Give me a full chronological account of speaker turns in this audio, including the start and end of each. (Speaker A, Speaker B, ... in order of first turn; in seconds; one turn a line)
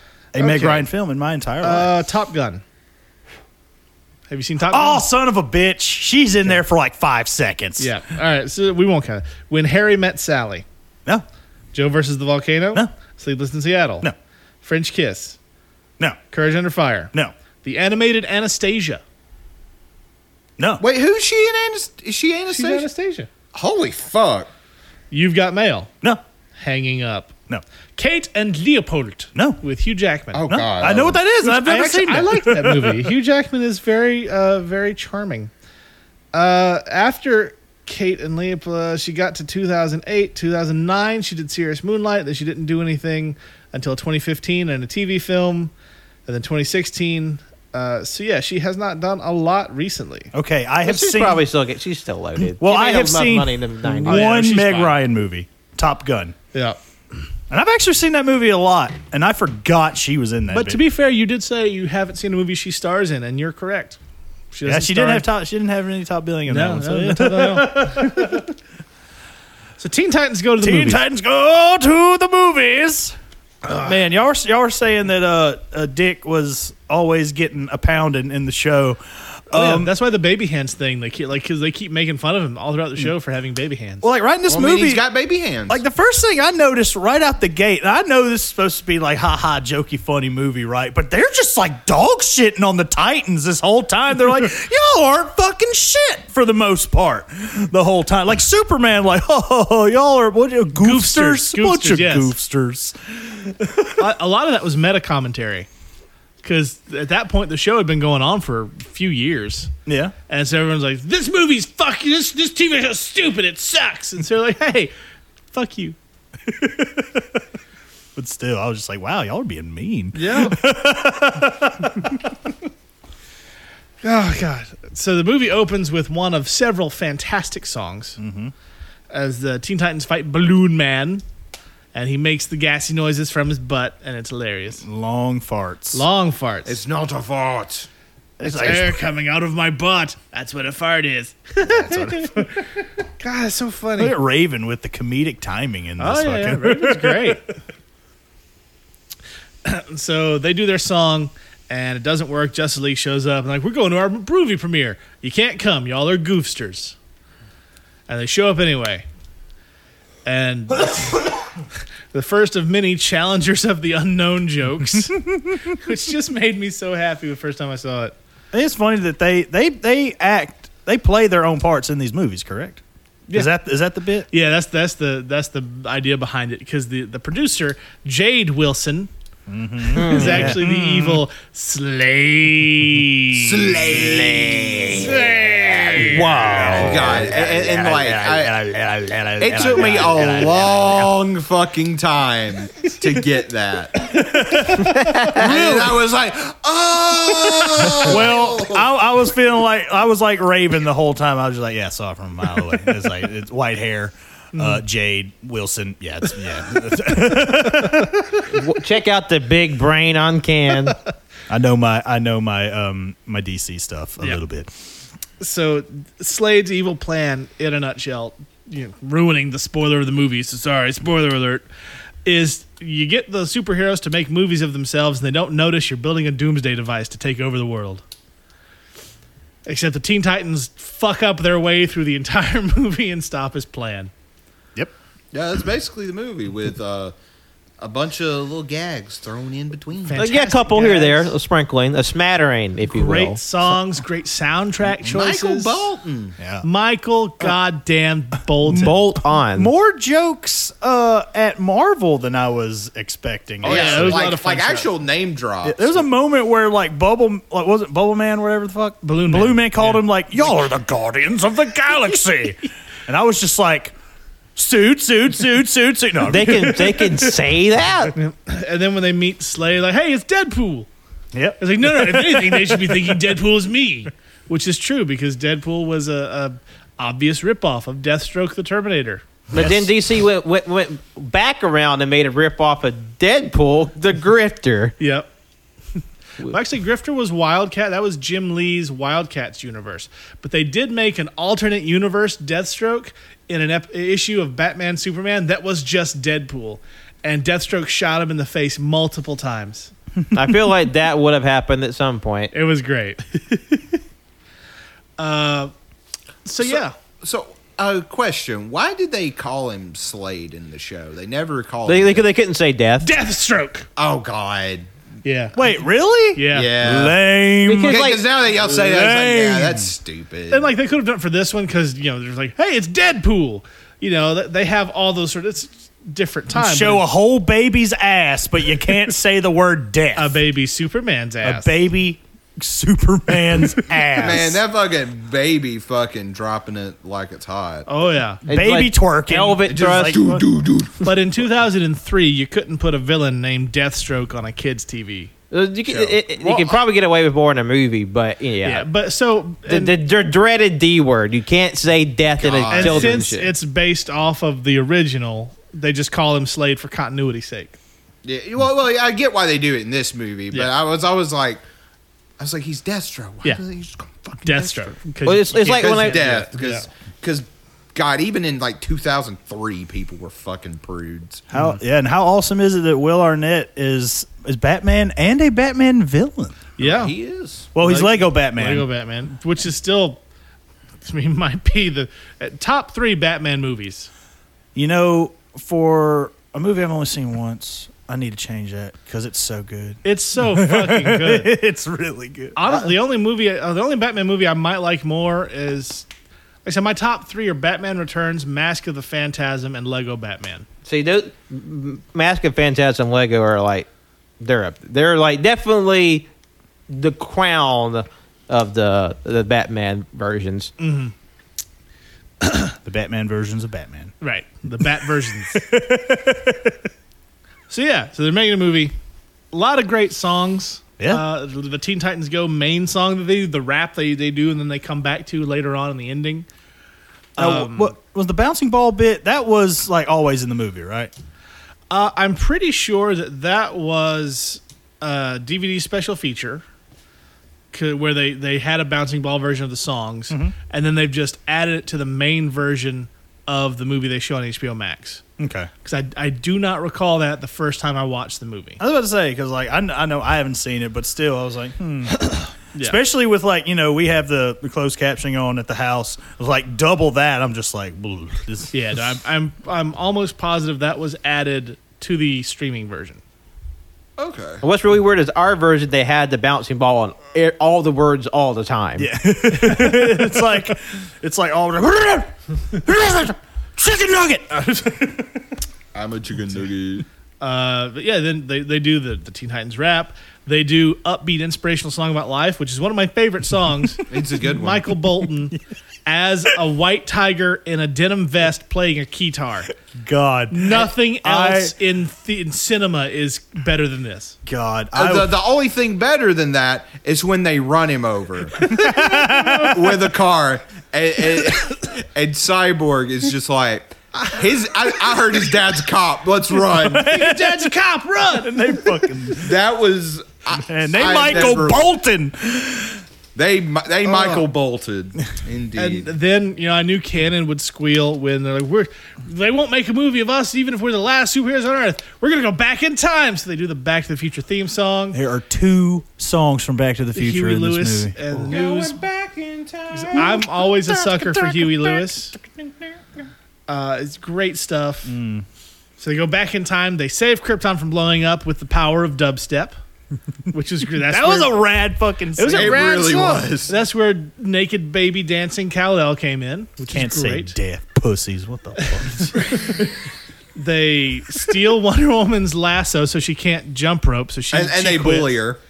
Speaker A: 0.3-1.9
Speaker B: 0.4-0.8
Speaker B: 1.6-2.6
Speaker B: 4.3-5.0
Speaker A: 4.7-7.9
Speaker B: 7.8-10.7
Speaker B: 11.7-14.1
Speaker B: 14.6-15.4
Speaker B: 16.3-17.1
Speaker B: 17.6-19.0
Speaker A: 20.6-20.8
Speaker C: 20.8-22.9
Speaker B: 22.5-23.3
Speaker C: 23.5-24.5
Speaker B: 25.1-25.9
Speaker B: 26.6-27.3
Speaker B: 28.0-30.5
Speaker A: 29.4-29.6
Speaker C: 30.3-31.2
Speaker A: 30.5-33.1
Speaker B: 31.4-35.5
Speaker B: 36.3-45.7
Speaker B: 46.3-50.3
Speaker A: 50.3-51.4
Speaker D: 50.9-54.9
Speaker A: 52.5-56.4
Speaker B: 54.0-54.8
Speaker A: 57.5-60.8
Speaker B: 60.5-64.0
Speaker B: 64.5-65.3
Speaker A: 64.7-68.5
Speaker B: 66.5-68.5
Speaker B: 69.8-71.0
Speaker A: 70.6-73.2
Speaker A: 73.7-79.9
Speaker B: 79.5-84.1
Speaker A: 84.0-85.0
Speaker C: 84.5-85.8
Speaker A: 85.7-104.0
Speaker B: 100.8-102.3
Speaker B: 104.0-105.7
Speaker B: 106.4-109.7
Speaker A: 109.9-110.1
Speaker B: 110.3-114.9
Speaker B: 115.5-116.0
Speaker A: 116.6-117.2
Speaker A: 118.2-122.4
Speaker B: 120.1-120.6
Speaker B: 124.0-128.2
Speaker A: 128.2-128.5
Speaker B: 129.1-131.2
Speaker B: 131.9-134.8
Speaker A: 134.8-136.1
Speaker B: 135.9-136.8
Speaker C: 136.7-137.9
Speaker A: 138.4-139.0
Speaker B: 138.4-144.1
Speaker A: 141.6-142.5
Speaker A: 144.0-147.4
Speaker B: 146.0-147.5
Speaker B: 149.7-157.0
Speaker B: 158.1-159.1
Speaker B: 160.2-161.4
Speaker B: 162.1-168.2
Speaker A: 165.2-165.8
Speaker A: 168.5-172.8
Speaker A: 173.3-174.3
Speaker B: 174.3-179.1
Speaker A: 179.5-181.2
Speaker B: 179.9-183.7
Speaker D: 179.9-180.6
Speaker C: 183.3-186.1
Speaker A: 184.2-191.1
Speaker B: 185.0-186.2
Speaker D: 186.0-188.0
Speaker C: 186.6-188.5
Speaker C: 189.4-194.1
Speaker A: 194.1-196.0
Speaker B: 194.2-194.7
Speaker D: 194.8-195.4
Speaker C: 195.3-198.8
Speaker A: 197.4-208.3
Speaker B: 204.5-204.8
Speaker D: 208.5-211.0
Speaker A: 211.5-214.7
Speaker B: 215.4-221.7
Speaker B: 222.2-228.0
Speaker B: 229.7-234.1
Speaker C: 235.3-237.2
Speaker C: 237.8-240.3
Speaker B: 240.1-241.3
Speaker D: 240.2-243.4
Speaker B: 242.9-245.9
Speaker C: 245.0-246.4
Speaker A: 246.4-246.7
Speaker B: 246.6-248.9
Speaker A: 248.7-249.0
Speaker D: 248.7-249.7
Speaker A: 249.5-254.3
Speaker B: 253.6-254.9
Speaker C: 253.7-256.1
Speaker A: 255.6-263.9
Speaker B: 259.0-260.0
Speaker A: 264.6-267.4
Speaker D: 266.2-268.1
Speaker B: 268.1-270.9
Speaker A: 271.3-273.3
Speaker B: 271.6-279.4
Speaker D: 279.5-284.9
Speaker A: 279.5-279.9
Speaker B: 285.0-285.3
Speaker B: 286.4-299.9
Speaker D: 300.3-302.5
Speaker B: 302.5-303.8
Speaker B: 305.2-305.7
Speaker B: 306.4-306.9
Speaker C: 306.6-312.3
Speaker D: 311.9-313.1
Speaker B: 313.0-313.9
Speaker C: 314.0-314.9
Speaker B: 315.2-315.6
Speaker A: 315.6-319.9
Speaker B: 316.4-316.7
Speaker C: 316.5-317.2
Speaker D: 317.7-318.2
Speaker C: 317.9-320.7
Speaker B: 320.5-327.0
Speaker A: 326.5-330.4
Speaker B: 330.2-331.8
Speaker A: 331.4-334.6
Speaker C: 334.1-337.9
Speaker B: 337.9-338.4
Speaker D: 338.5-340.4
Speaker A: 338.5-340.4
Speaker C: 339.7-341.2
Speaker B: 341.0-345.3
Speaker D: 345.5-348.9
Speaker B: 345.9-346.8
Speaker B: 348.6-349.9
Speaker D: 349.7-353.5
Speaker C: 352.4-353.2
Speaker B: 352.7-357.8
Speaker C: 358.2-361.6
Speaker C: 362.4-364.9
Speaker B: 364.4-366.9
Speaker D: 365.2-366.5
Speaker C: 365.6-371.4
Speaker A: 371.5-376.7
Speaker B: 371.5-371.8
Speaker B: 376.8-377.1
Speaker C: 376.8-377.7
Speaker A: 377.7-378.9
Speaker B: 377.8-380.2
Speaker B: 381.0-384.1
Speaker A: 384.8-392.6
Speaker B: 390.0-391.5
Speaker B: 392.6-396.1
Speaker B: 396.6-400.7
Speaker D: 400.9-403.9
Speaker D: 404.4-406.3
Speaker D: 406.9-410.7
Speaker B: 410.8-411.1
Speaker B: 412.4-412.7
Speaker A: 412.9-414.1
Speaker B: 414.2-415.6
Speaker A: 415.5-416.8
Speaker B: 417.7-418.9
Speaker B: 419.5-426.5
Speaker A: 421.0-421.2
Speaker B: 427.4-427.9
Speaker A: 427.4-431.1
Speaker B: 431.9-436.6
Speaker B: 437.7-445.2
Speaker A: 440.3-440.6
Speaker A: 445.4-445.7
Speaker B: 445.8-448.8
Speaker A: 448.8-458.7
Speaker B: 452.2-453.0
Speaker B: 458.7-463.2
Speaker C: 464.2-464.6
Speaker D: 464.6-469.1
Speaker A: 469.0-475.1
Speaker B: 469.6-470.2
Speaker C: 475.9-477.1
Speaker B: 477.4-489.7
Speaker C: 484.1-484.9
Speaker A: 489.9-491.7
Speaker B: 490.5-494.4
Speaker A: 494.4-495.4
Speaker C: 494.9-498.9
Speaker A: 498.6-500.0
Speaker B: 498.6-499.7
Speaker C: 499.6-507.1
Speaker B: 504.1-504.4
Speaker A: 506.7-507.7
Speaker B: 506.9-509.0
Speaker A: 508.4-509.6
Speaker C: 509.4-511.9
Speaker A: 510.6-513.0
Speaker C: 513.4-516.1
Speaker B: 514.1-514.5
Speaker B: 515.8-525.2
Speaker A: 525.1-528.6
Speaker B: 527.1-529.0
Speaker D: 528.5-530.0
Speaker C: 528.6-529.0
Speaker B: 529.9-532.4
Speaker A: 530.1-532.1
Speaker B: 533.7-535.1
Speaker A: 535.0-535.4
Speaker B: 536.0-539.8
Speaker B: 540.5-541.6
Speaker A: 541.0-543.3
Speaker B: 542.2-547.6
Speaker C: 542.5-543.8
Speaker A: 546.8-549.5
Speaker B: 548.9-549.8
Speaker B: 550.6-555.4
Speaker C: 554.5-555.6